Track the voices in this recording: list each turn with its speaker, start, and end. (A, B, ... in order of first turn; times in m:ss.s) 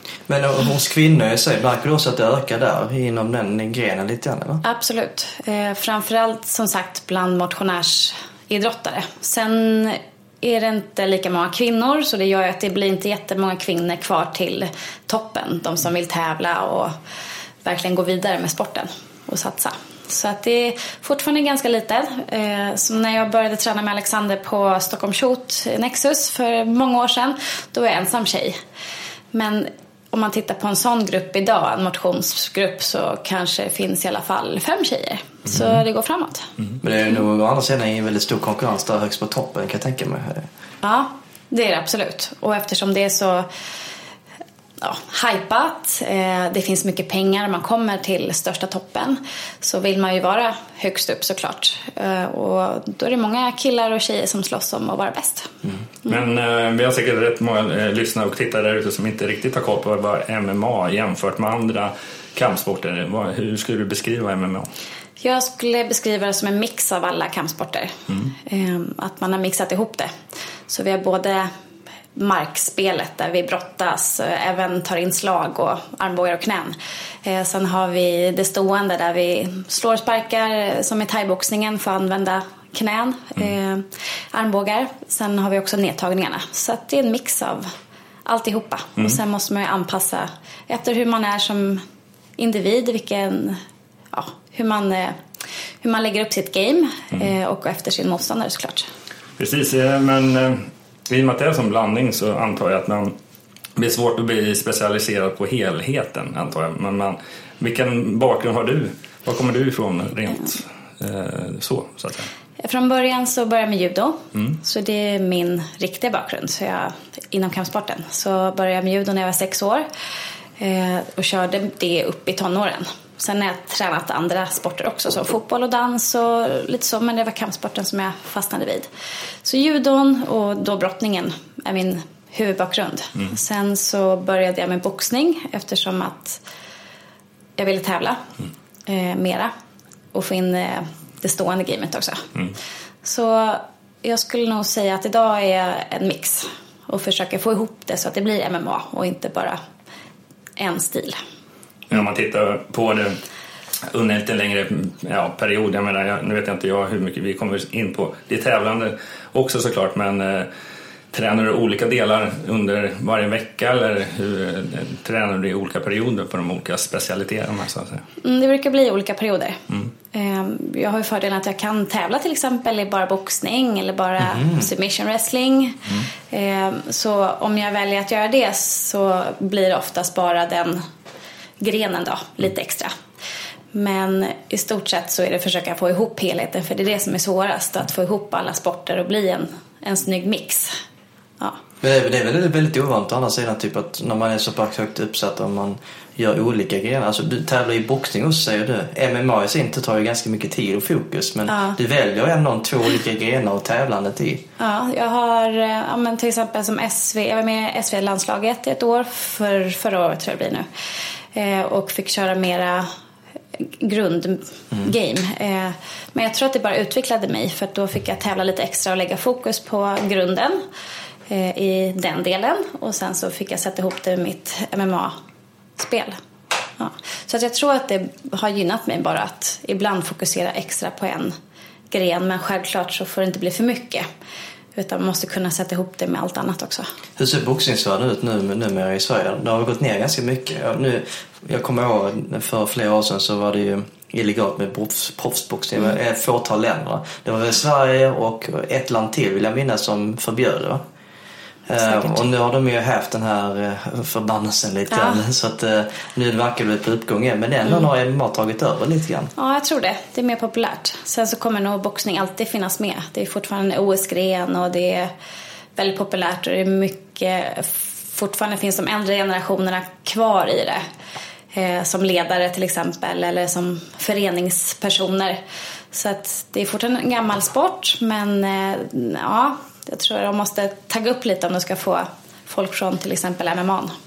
0:00.3-0:04.6 A
0:04.6-0:16.9 B
0:17.6-0:28.6 B
0:29.3-0:36.5 B
0:36.8-0:40.5 A
0:40.8-0:43.5 B
0:44.8-0:55.5 B
0:56.1-1:04.7 C
1:05.2-1:10.1 B
1:10.7-1:11.5 B
1:12.2-1:27.7 B
1:28.3-1:31.8 B
1:32.4-1:33.6 B
1:34.1-1:35.2 B
1:35.8-1:38.9 B
1:39.4-1:43.2 C
1:43.8-1:52.3 C
1:52.6-1:59.9 B
2:00.6-2:08.9 B
2:09.4-2:16.4 B
2:17.6-2:18.2 B
2:18.9-2:19.5 B
2:20.1-2:22.3 B
2:23.0-2:29.6 B
2:30.6-2:31.2 B
2:31.9-2:33.2 C
2:33.9-2:40.5 C
2:41.1-2:48.0 C
2:48.2-2:49.6 B
2:50.1-3:00.8 B
2:54.2-2:54.7 A
3:01.6-3:02.9 B
3:03.7-3:10.8 B
3:11.8-3:24.4 A
3:21.5-3:21.8 B
3:24.6-3:30.7 B
3:31.3-3:32.9 B
3:33.6-3:40.6 B
3:41.3-3:45.1 B
3:45.8-3:46.2 B
3:46.8-3:51.4 B
3:51.9-3:54.1 B
3:54.8-3:56.8 B
3:57.2-4:10.8 A
4:11.7-4:19.3 A
4:11.8-4:12.2 B
4:14.9-4:15.2 B
4:19.4-4:25.1 B
4:25.8-4:30.8 B
4:31.5-4:35.4 B
4:35.9-4:43.9 B